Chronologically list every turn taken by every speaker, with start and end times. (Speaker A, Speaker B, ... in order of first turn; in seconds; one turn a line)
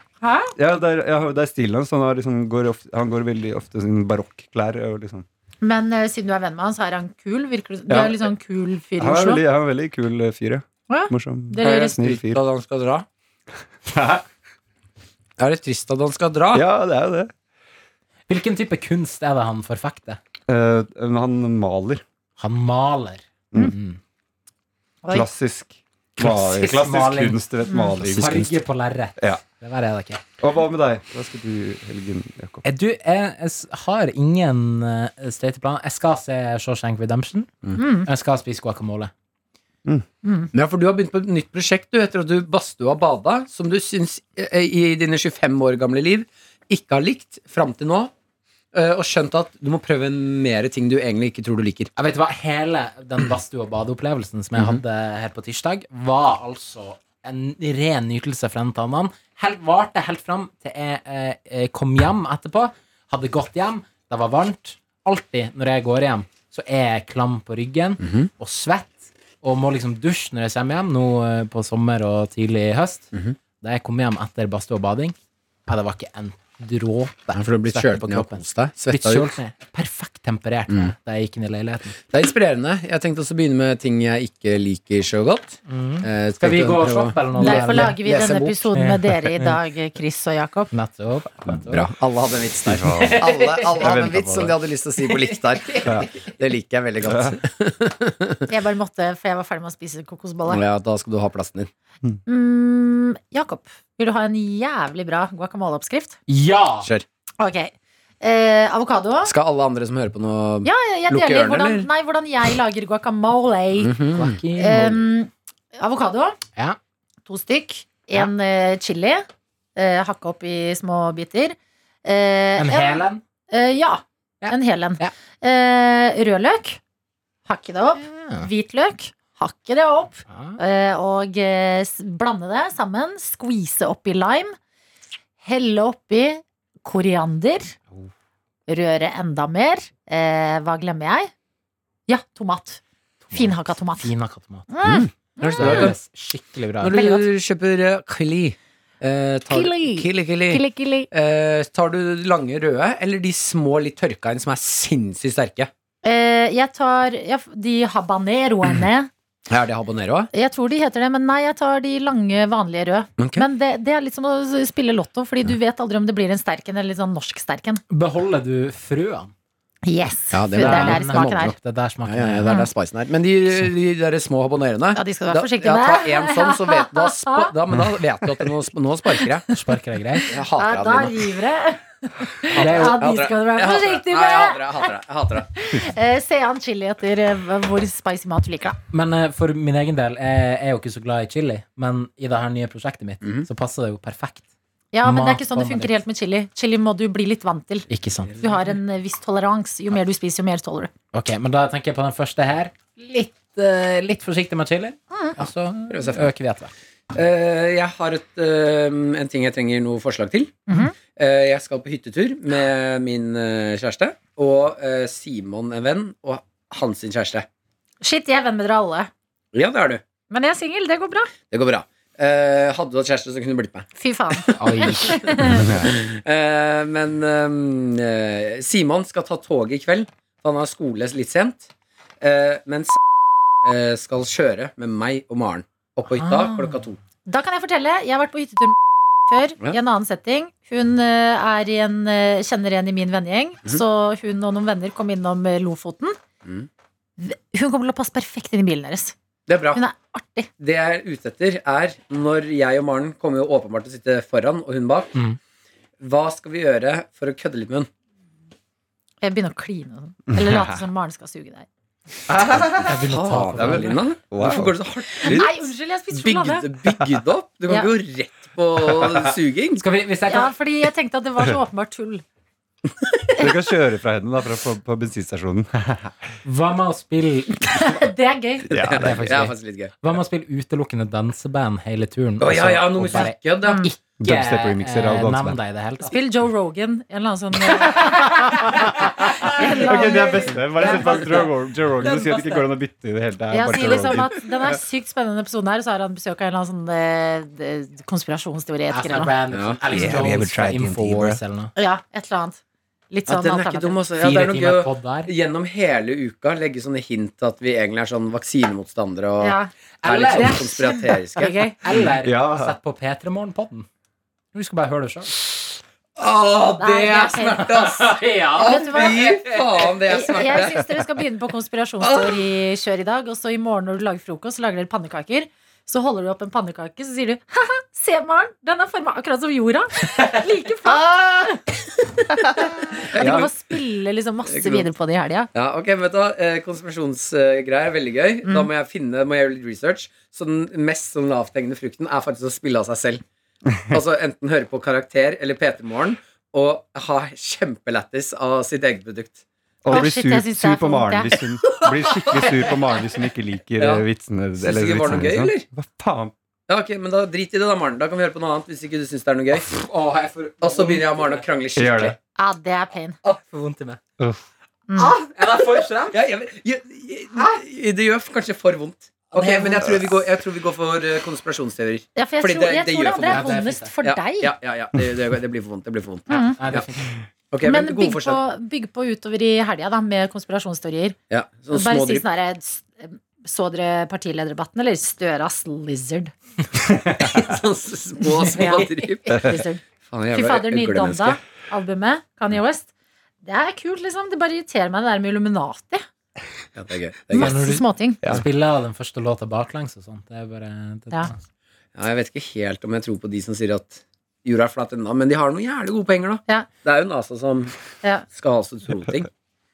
Speaker A: 0.2-0.5
Speaker B: 0.6-5.2
Speaker A: 5.6-9.4
Speaker B: 7.9-8.3
Speaker B: 9.0-12.4
Speaker A: 10.9-12.0
Speaker C: 11.6-13.1
Speaker B: 13.8-14.2
Speaker C: 15.4-16.6
Speaker B: 16.5-17.3
Speaker D: 18.3-20.2
Speaker B: 20.5-22.0
Speaker D: 22.4-24.0
Speaker B: 25.1-28.6
Speaker D: 26.2-27.4
Speaker A: 27.7-27.9
Speaker D: 28.0-30.2
Speaker B: 30.4-32.6
Speaker D: 32.6-39.1
Speaker A: 37.8-38.1
Speaker A: 40.2-40.5
Speaker C: 40.5-48.1
Speaker C: 48.7-51.9
Speaker D: 52.0-75.2
Speaker C: 54.5-54.8
Speaker C: 68.0-68.3
Speaker D: 75.7-82.0
Speaker C: 77.3-79.3
Speaker C: 82.1-88.7
Speaker D: 85.7-88.0
Speaker A: 87.4-90.7
Speaker D: 88.7-89.5
Speaker D: 90.7-91.9
Speaker C: 91.7-98.4
Speaker B: 92.7-93.2
Speaker D: 92.7-94.5
Speaker B: 93.8-94.4
Speaker D: 95.0-96.1
Speaker B: 95.8-96.1
Speaker B: 97.0-97.3
Speaker A: 98.5-100.6
Speaker C: 100.5-101.7
Speaker A: 102.2-106.2
Speaker D: 106.3-106.9
Speaker A: 107.4-109.3
Speaker C: 109.2-111.9
Speaker A: 110.6-113.9
Speaker C: 113.8-114.4
Speaker D: 114.1-115.0
Speaker A: 114.5-116.4
Speaker A: 117.2-119.2
Speaker A: 119.8-126.8
Speaker D: 122.6-123.2
Speaker D: 124.4-125.1
Speaker A: 127.5-134.5
Speaker D: 128.0-128.5
Speaker D: 130.3-130.6
Speaker A: 135.4-137.7
Speaker A: 138.7-141.3
Speaker A: 142.1-142.8
Speaker D: 143.2-144.7
Speaker A: 143.3-144.1
Speaker A: 144.7-145.9
Speaker B: 144.8-145.1
Speaker C: 145.4-145.9
Speaker D: 145.5-147.0
Speaker C: 146.8-155.7
Speaker A: 146.9-147.2
Speaker A: 149.5-151.1
Speaker A: 156.0-159.1
Speaker C: 159.5-160.3
Speaker A: 160.3-167.8
Speaker C: 163.2-163.4
Speaker D: 167.9-169.3
Speaker A: 169.8-171.5
Speaker C: 170.3-179.5
Speaker D: 170.5-172.5
Speaker A: 174.9-177.5
Speaker D: 179.5-180.3
Speaker A: 180.2-184.9
Speaker C: 180.3-181.3
Speaker C: 182.5-185.5
Speaker D: 182.5-183.0
Speaker A: 185.5-188.8
Speaker D: 188.9-194.4
Speaker C: 193.2-193.5
Speaker A: 194.9-197.9
Speaker D: 195.0-196.0
Speaker D: 197.9-198.4
Speaker C: 198.2-198.7
Speaker A: 198.4-200.9
Speaker D: 201.1-206.7
Speaker C: 205.9-206.3
Speaker C: 207.1-210.6
Speaker A: 210.7-210.9
Speaker C: 211.1-217.5
Speaker A: 218.0-219.1
Speaker C: 219.5-220.0
Speaker A: 220.3-221.3
Speaker C: 221.5-233.0
Speaker A: 224.0-225.7
Speaker D: 224.6-225.2
Speaker B: 225.4-225.9
Speaker C: 233.6-237.0
Speaker A: 236.2-236.5
Speaker A: 237.2-246.2
Speaker A: 247.2-249.1
Speaker C: 249.5-249.8
Speaker A: 249.7-250.5
Speaker C: 250.6-255.1
Speaker C: 256.0-257.9
Speaker A: 259.2-261.7
Speaker B: 260.3-260.8
Speaker B: 262.3-262.9
Speaker D: 262.8-264.0
Speaker C: 262.9-269.8
Speaker B: 263.6-265.5
Speaker A: 265.1-266.7
Speaker D: 269.8-270.5
Speaker A: 270.3-272.2
Speaker C: 273.0-273.4
Speaker B: 273.4-276.1
Speaker D: 276.4-277.9
Speaker A: 277.7-278.6
Speaker B: 278.6-279.4
Speaker C: 278.7-280.0
Speaker D: 278.8-286.1
Speaker C: 282.4-283.8
Speaker A: 283.6-283.9
Speaker B: 284.2-285.6
Speaker A: 286.0-291.5
Speaker D: 288.5-292.6
Speaker B: 289.8-294.3
Speaker A: 293.5-299.3
Speaker D: 298.9-301.7
Speaker C: 299.5-300.2
Speaker B: 299.9-301.4
Speaker A: 301.8-304.0
Speaker C: 303.3-311.6
Speaker D: 304.1-305.3
Speaker A: 309.4-311.8
Speaker D: 310.0-310.6
Speaker D: 311.8-313.9
Speaker B: 311.9-312.8
Speaker D: 314.5-315.4
Speaker C: 316.1-321.0
Speaker A: 316.8-317.7
Speaker D: 317.7-319.9
Speaker A: 318.6-319.4
Speaker A: 320.1-331.6
Speaker C: 322.0-322.5
Speaker C: 330.9-331.6
Speaker A: 332.4-335.5
Speaker C: 333.1-333.5
Speaker B: 333.2-333.5
Speaker C: 334.4-334.9
Speaker C: 335.5-343.2
Speaker C: 343.9-349.4
Speaker B: 349.8-356.3
Speaker A: 349.9-351.4
Speaker C: 351.6-352.6
Speaker D: 352.5-353.3
Speaker C: 353.8-354.0
Speaker C: 354.6-355.6
Speaker C: 356.7-359.6
Speaker D: 359.7-361.4
Speaker C: 360.6-362.2
Speaker B: 361.8-362.1
Speaker A: 362.4-363.2
Speaker D: 363.2-364.0
Speaker B: 364.2-364.4
Speaker A: 364.9-365.1
Speaker D: 365.0-366.2
Speaker C: 366.1-376.9
Speaker D: 369.3-369.9
Speaker A: 372.1-374.5
Speaker D: 373.3-373.9
Speaker A: 376.3-376.6
Speaker D: 376.3-377.1
Speaker C: 377.5-378.4
Speaker A: 377.6-381.2
Speaker C: 381.3-382.2
Speaker A: 381.7-386.3
Speaker C: 387.1-391.4
Speaker A: 388.3-389.8
Speaker A: 390.3-392.9
Speaker A: 393.4-396.0
Speaker C: 396.8-397.7
Speaker A: 397.3-398.2
Speaker D: 397.3-401.4
Speaker C: 401.9-407.7
Speaker C: 408.3-409.3